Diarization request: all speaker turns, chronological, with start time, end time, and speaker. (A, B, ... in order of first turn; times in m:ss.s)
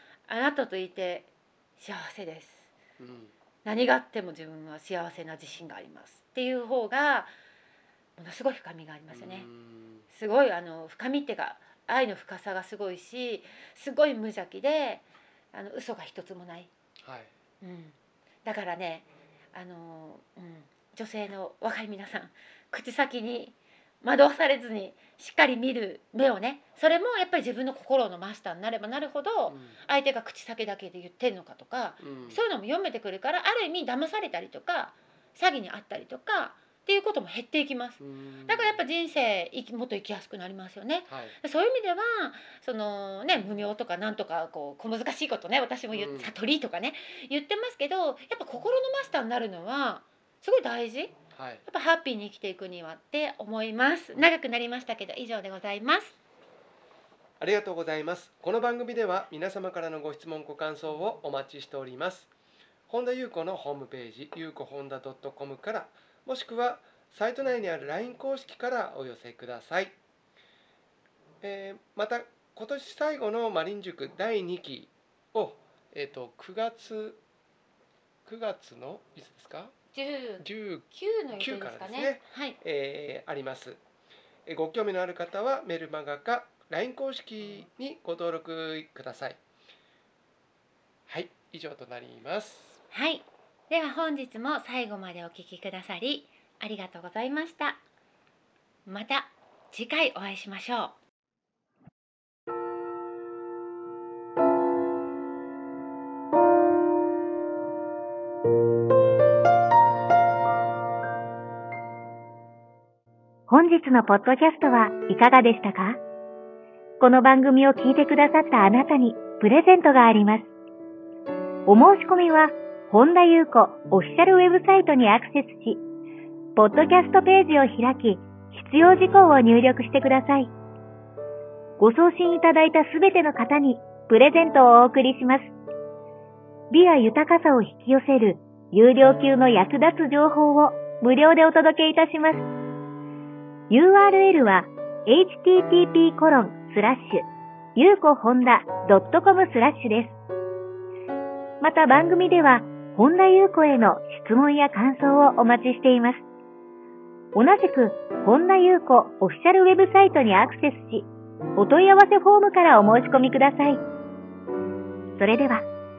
0:00.3-0:02.7 A
0:03.0-0:03.3 B
0:03.6-0:07.3 A
0:08.2-0:09.5 A
0:09.1-0:10.1 B
0:10.1-0:16.7 A
0:17.0-0:17.3 B
0:17.6-0:51.1 A
0:29.5-0:29.8 B
0:32.0-0:32.4 B
0:38.0-0:38.8 B
0:41.1-0:41.4 B
0:45.9-0:46.3 B
0:51.3-0:51.6 B
0:51.7-0:56.2 A
0:57.4-1:02.3 B
1:02.9-1:09.9 B
1:11.4-1:17.2 B
1:18.2-1:19.7 B
1:19.9-1:22.6 A
1:20.4-1:23.8 B
1:24.5-1:29.4 B
1:31.1-1:32.8 B
1:32.9-1:37.8 A
1:38.9-1:41.0 A
1:53.5-1:56.0 C
1:57.0-2:00.5 C
2:01.7-2:05.8 C
2:06.6-2:10.5 C
2:11.8-2:15.5 C
2:16.7-2:22.4 C
2:23.7-2:30.2 C
2:31.6-2:36.2 C
2:37.4-2:43.8 C
2:45.2-2:45.7 C